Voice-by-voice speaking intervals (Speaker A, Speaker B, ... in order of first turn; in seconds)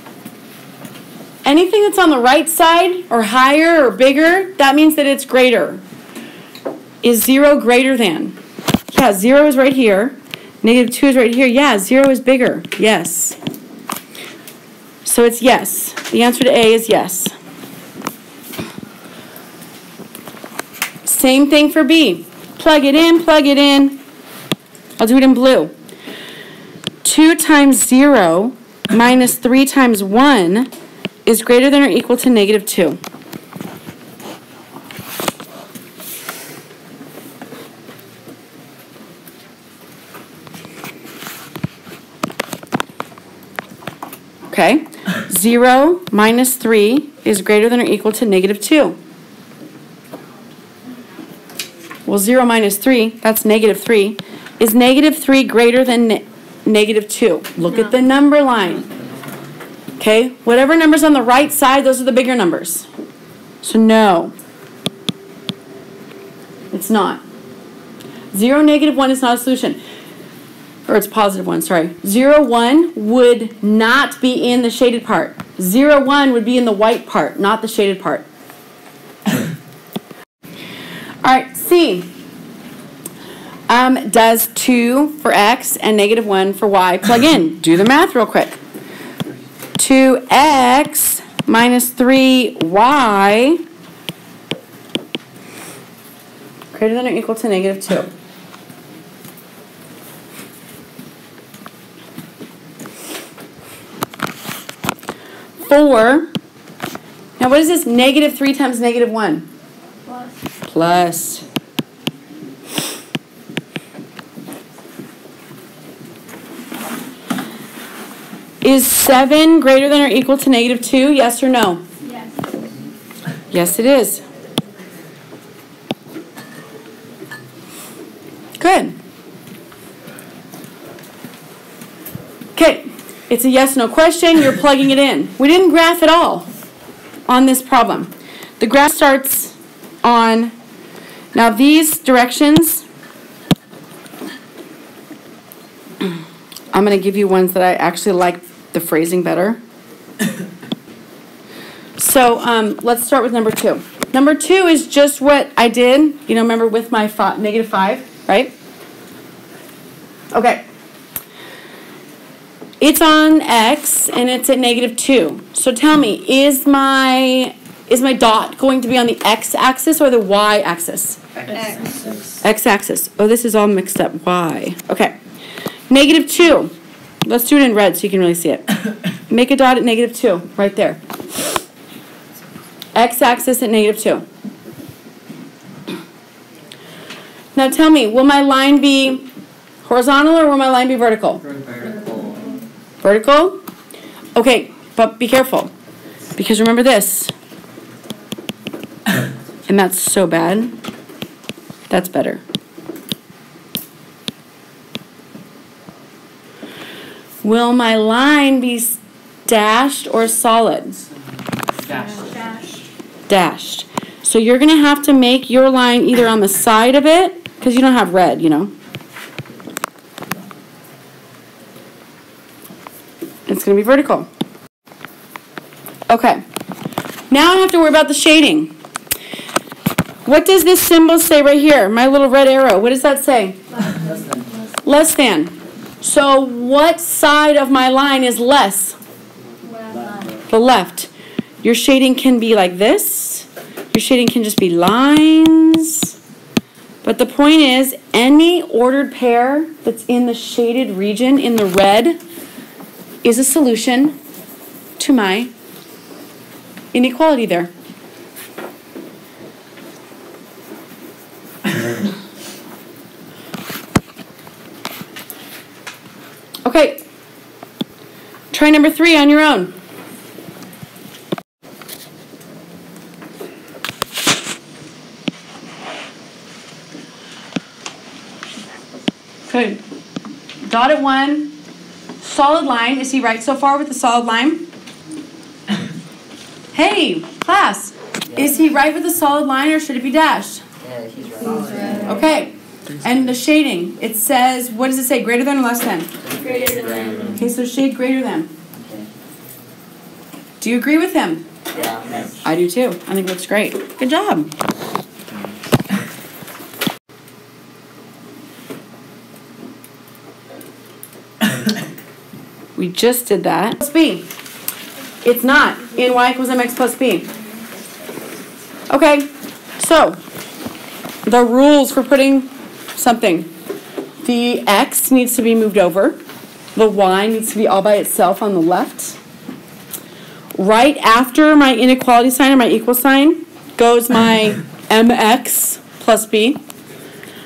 Speaker A: 1.4-5.8, 7.0-8.3, 8.9-13.4, 15.0-17.3, 21.0-24.0, 25.0-25.7, 27.0-30.7, 31.2-33.0, 44.5-49.0, 52.0-58.9, 60.0-62.9, 63.6-64.3, 66.7-67.2, 68.3-69.8, 70.9-78.2, 81.2-82.1, 83.7-88.6, 89.8-93.6, 96.7-98.1, 105.6-106.3, 107.4-109.5, 110.7-111.4, 118.6-121.8, 123.5-124.2, 128.6-128.9, 132.5-136.5, 137.3-140.5, 141.3-142.8, 146.7-149.6, 152.0-158.5, 160.3-160.6, 162.8-171.2, 172.4-175.2, 175.9-176.7, 177.2-178.7, 179.3-181.0, 182.9-184.2, 187.5-189.3, 189.8-191.4, 193.0-193.6, 194.3-195.7, 196.3-197.3, 199.7-200.7, 201.9-202.4, 207.4-211.0, 213.3-218.7, 223.5-224.3, 226.1-226.4, 227.3-228.7, 230.2-233.6, 234.8-239.0, 240.5-241.1, 241.6-246.1, 247.0-252.2, 253.2-254.2, 255.0-255.5, 256.9-257.7, 266.6-267.0, 268.5-269.7, 279.5-279.8, 280.6-281.6, 282.2-284.7, 286.7-290.6, 292.0-296.1, 297.3-298.5, 300.6-301.4, 302.4-304.5, 312.8-314.3, 315.2-317.3, 318.9-320.2, 321.2-323.5, 324.2-326.2, 326.8-329.2, 330.6-336.6
Speaker B: 110.0-110.4, 122.0-122.5, 171.5-171.9, 211.9-212.8, 239.6-240.3
Speaker C: 171.3-172.4, 191.4-192.5, 211.8-212.2, 233.9-234.7, 290.8-292.2, 296.2-297.4, 298.7-299.1, 301.7-302.4, 305.3-305.5